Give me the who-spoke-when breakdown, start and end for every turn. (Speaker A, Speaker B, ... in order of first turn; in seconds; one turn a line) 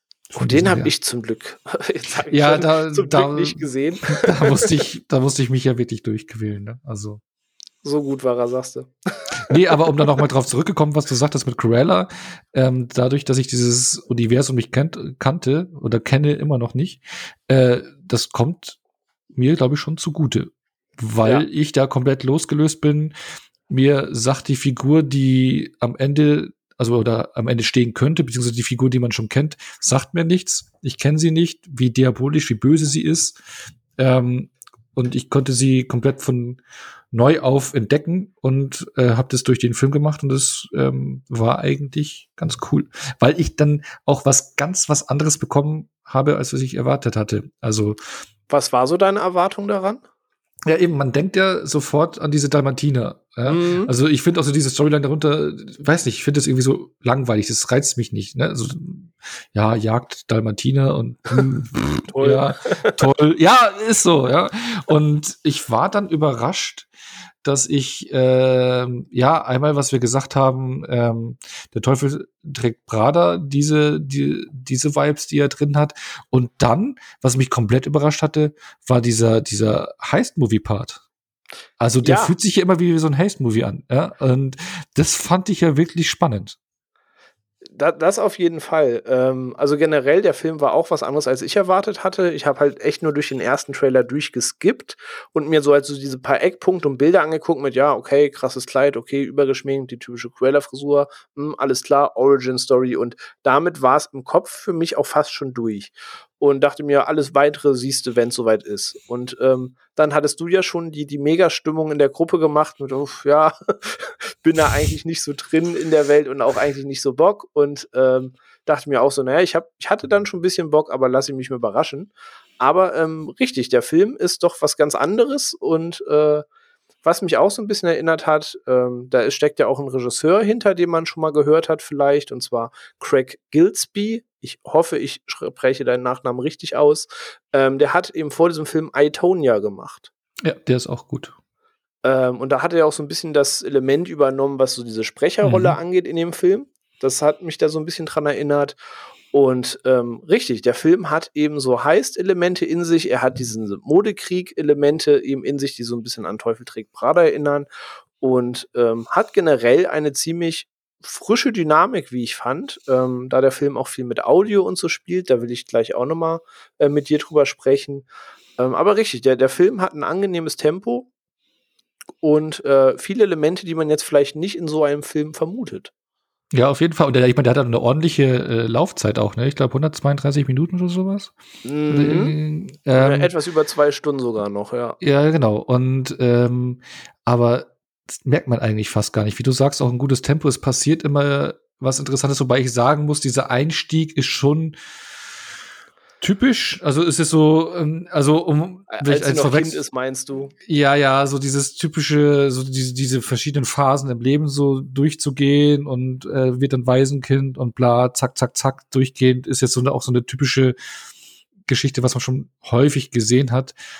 Speaker A: 0.3-0.9
Speaker B: 0.3-4.7
Speaker A: 2.3-7.2
Speaker B: 7.8-10.1
Speaker A: 9.4-18.8
Speaker A: 19.3-23.1
Speaker A: 23.7-33.4
Speaker A: 34.0-36.6
Speaker A: 37.1-48.0
Speaker B: 48.5-50.0
Speaker A: 50.7-66.9
Speaker B: 53.5-53.9
Speaker B: 62.1-63.1
Speaker A: 67.4-81.0
Speaker A: 81.8-86.6
Speaker B: 82.0-82.3
Speaker B: 87.7-126.4
Speaker B: 127.0-140.1
Speaker A: 140.4-141.3
Speaker B: 142.0-148.8
Speaker A: 145.4-145.8
Speaker B: 149.3-157.7
Speaker B: 158.2-168.1
Speaker B: 168.6-171.1
Speaker B: 172.2-175.9
Speaker A: 176.5-181.3
Speaker B: 181.6-182.4
Speaker A: 181.9-183.3
Speaker B: 182.9-185.0
Speaker A: 185.0-194.8
Speaker A: 196.2-199.8
Speaker B: 198.9-200.5
Speaker A: 200.6-210.8
Speaker A: 211.7-213.8